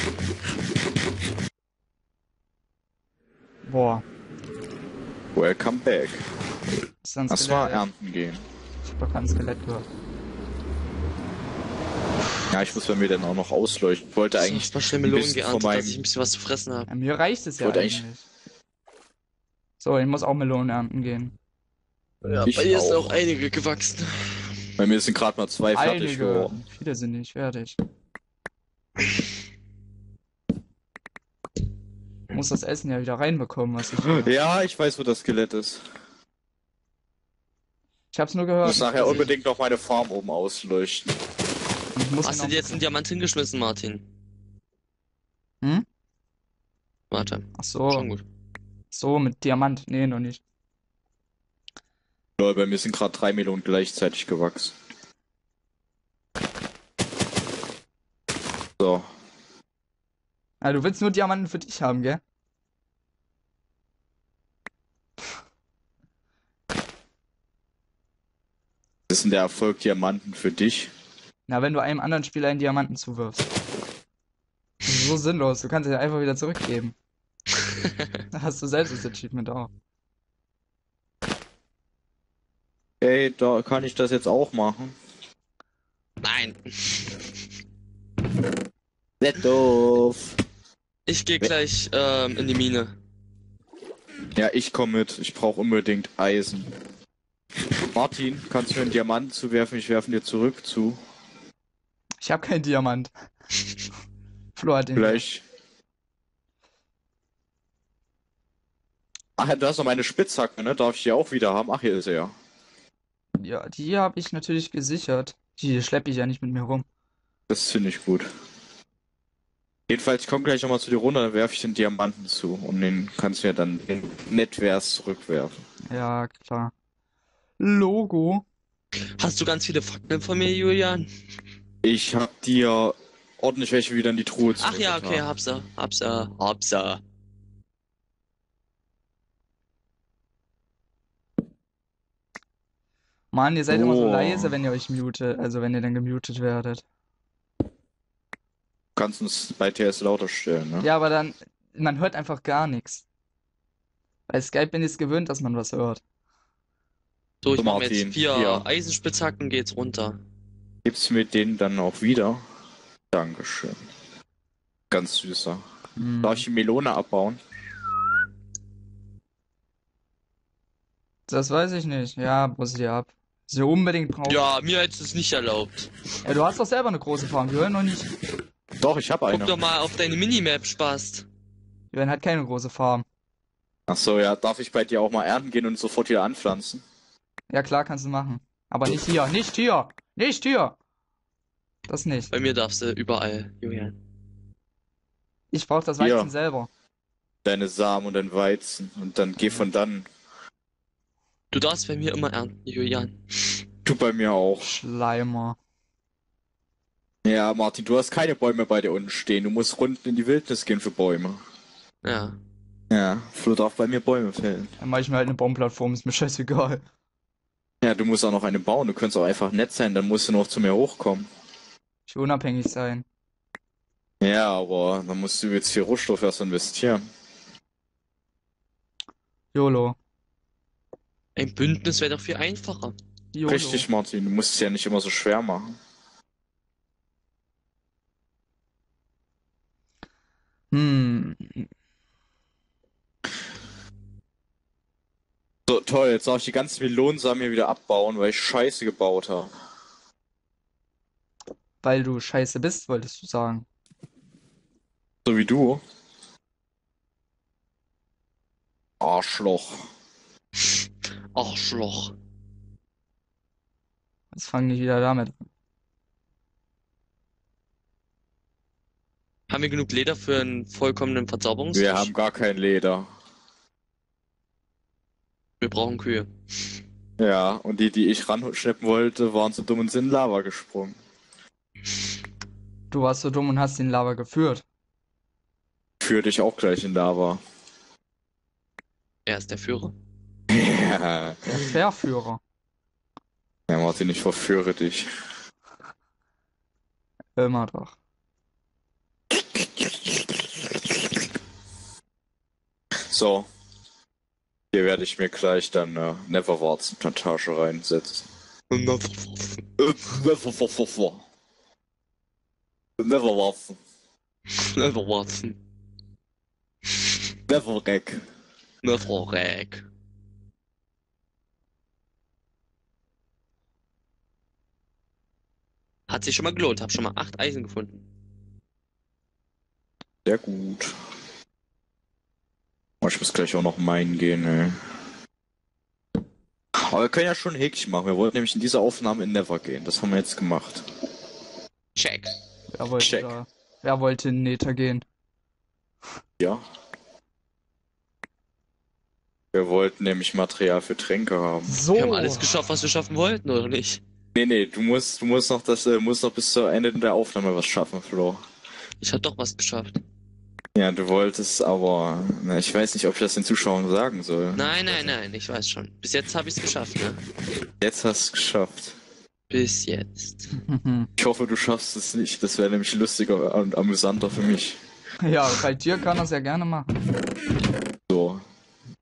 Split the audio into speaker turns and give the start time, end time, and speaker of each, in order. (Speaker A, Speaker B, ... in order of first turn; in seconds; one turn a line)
Speaker A: 3.6-4.0
Speaker B: 5.3-6.2
Speaker A: 7.0-7.8
Speaker B: 7.3-8.4
Speaker A: 8.8-9.8
Speaker B: 12.5-16.0
Speaker C: 14.3-16.9
Speaker A: 16.9-18.2
Speaker B: 17.6-18.0
Speaker A: 19.8-21.3
Speaker C: 22.2-24.6
Speaker B: 22.4-23.1
Speaker B: 24.8-26.5
Speaker A: 25.7-27.8
Speaker A: 32.3-34.3
Speaker B: 34.0-35.8
Speaker A: 38.1-39.3
Speaker B: 38.6-41.1
Speaker A: 41.9-42.8
Speaker C: 42.2-44.1
Speaker C: 47.1-48.2
Speaker A: 47.5-48.1
Speaker A: 48.9-50.4
Speaker B: 52.4-54.7
Speaker B: 58.8-59.0
Speaker A: 60.6-62.2
Speaker B: 69.1-70.9
Speaker A: 71.5-73.5
Speaker A: 74.8-76.9
Speaker A: 78.3-79.7
Speaker B: 83.0-84.9
Speaker C: 86.2-87.3
Speaker B: 89.2-90.4
Speaker C: 91.1-92.9
Speaker B: 94.3-96.7
Speaker B: 97.9-101.0
Speaker A: 102.2-103.1
Speaker A: 104.5-105.2
Speaker B: 104.9-105.4
Speaker B: 109.4-112.3
Speaker A: 113.4-116.8
Speaker B: 117.5-118.3
Speaker B: 119.9-125.6
Speaker A: 125.9-126.7
Speaker A: 127.6-128.4
Speaker C: 129.2-131.1
Speaker B: 131.8-135.3
Speaker C: 134.6-137.0
Speaker A: 143.3-146.8
Speaker B: 143.7-144.6
Speaker B: 148.9-150.9
Speaker A: 150.8-153.0
Speaker A: 154.3-156.0
Speaker C: 157.4-160.2
Speaker B: 157.6-158.6
Speaker B: 160.8-162.4
Speaker B: 163.1-163.8
Speaker B: 164.9-165.6
Speaker A: 166.0-166.4
Speaker B: 166.2-167.4
Speaker A: 171.3-174.5
Speaker C: 174.2-175.9
Speaker A: 176.2-178.1
Speaker B: 178.8-179.6
Speaker C: 179.3-181.2
Speaker A: 181.9-183.0
Speaker B: 183.9-186.8
Speaker A: 187.5-190.8
Speaker A: 191.9-192.3
Speaker C: 192.3-194.0
Speaker A: 195.5-196.7
Speaker B: 196.0-196.3
Speaker B: 197.4-200.1
Speaker C: 201.5-203.2
Speaker B: 203.8-204.7
Speaker A: 204.6-205.6
Speaker B: 207.2-211.4
Speaker C: 212.0-212.4
Speaker B: 212.9-214.7
Speaker A: 214.8-216.8
Speaker B: 217.8-221.3
Speaker A: 222.1-223.0
Speaker B: 224.2-227.0
Speaker A: 229.5-230.0
Speaker C: 231.3-232.9
Speaker A: 233.3-233.9
Speaker B: 233.4-235.8
Speaker A: 240.7-241.7
Speaker B: 245.7-249.5
Speaker A: 251.8-253.7
Speaker B: 255.2-255.8
Speaker B: 259.0-259.9
Speaker C: 261.3-262.1
Speaker A: 264.3-265.5
Speaker C: 269.5-272.1
Speaker B: 271.7-273.1
Speaker C: 275.6-276.3
Speaker B: 277.2-280.9
Speaker A: 282.9-284.6
Speaker B: 286.0-287.4
Speaker C: 289.2-289.9
Speaker B: 290.5-291.6
Speaker A: 291.4-292.4
Speaker B: 293.7-295.1
Speaker A: 297.4-297.9
Speaker B: 299.6-299.9
Speaker B: 303.1-303.5
Speaker B: 304.7-308.2
Speaker C: 308.7-309.6
Speaker B: 309.8-311.2
Speaker B: 313.0-313.8
Speaker C: 314.5-315.6
Speaker B: 317.5-318.2
Speaker C: 318.8-319.8
Speaker C: 326.1-328.0
Speaker B: 330.2-330.9
Speaker B: 333.0-334.8
Speaker B: 336.7-340.9
Speaker C: 341.9-342.3
Speaker A: 342.7-345.0
Speaker B: 343.0-343.3
Speaker B: 349.5-351.8
Speaker A: 351.6-352.5
Speaker C: 351.9-354.0
Speaker B: 354.3-358.4
Speaker C: 359.0-360.0
Speaker B: 360.7-365.1
Speaker C: 364.5-367.2
Speaker B: 367.8-368.9
Speaker C: 369.5-370.5
Speaker A: 370.5-371.1
Speaker B: 371.2-374.8
Speaker A: 375.2-376.9
Speaker B: 378.1-378.4